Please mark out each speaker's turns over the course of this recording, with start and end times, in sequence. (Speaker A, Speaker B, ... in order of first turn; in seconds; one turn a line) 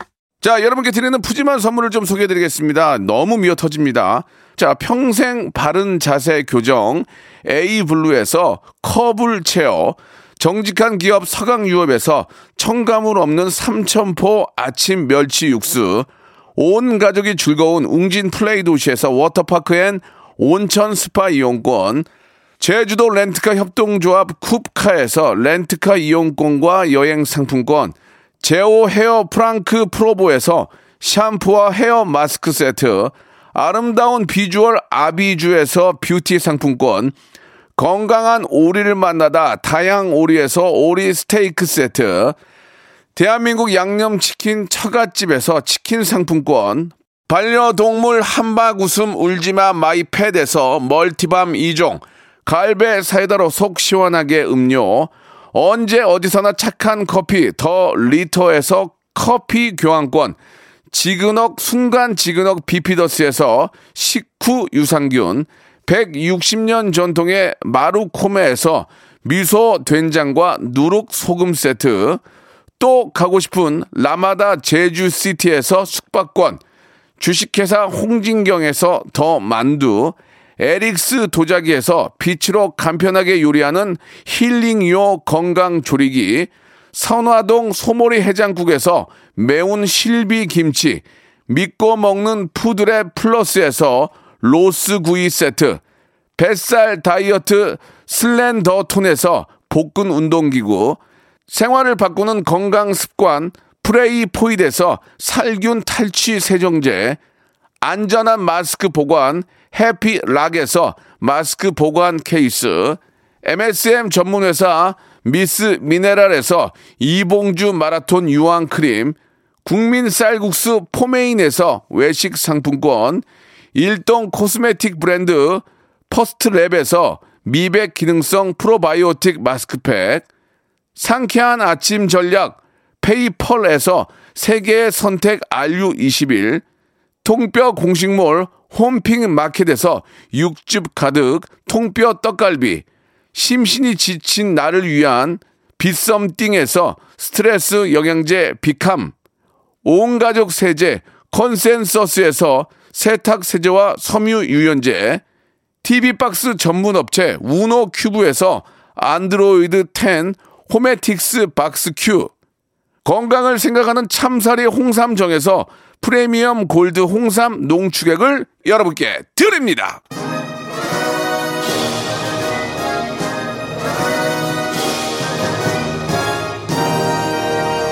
Speaker A: 0.4-22.1
Speaker A: 22.6-37.1
Speaker A: 37.8-42.4
Speaker A: 43.1-60.4
Speaker A: 60.9-72.2
Speaker A: 72.8-76.6
Speaker A: 77.2-95.8
Speaker A: 96.4-107.2
Speaker A: 107.8-130.3
Speaker A: 131.0-136.6
Speaker A: 137.2-149.1
Speaker A: 149.8-155.2
Speaker A: 155.8-162.3
Speaker A: 163.1-170.0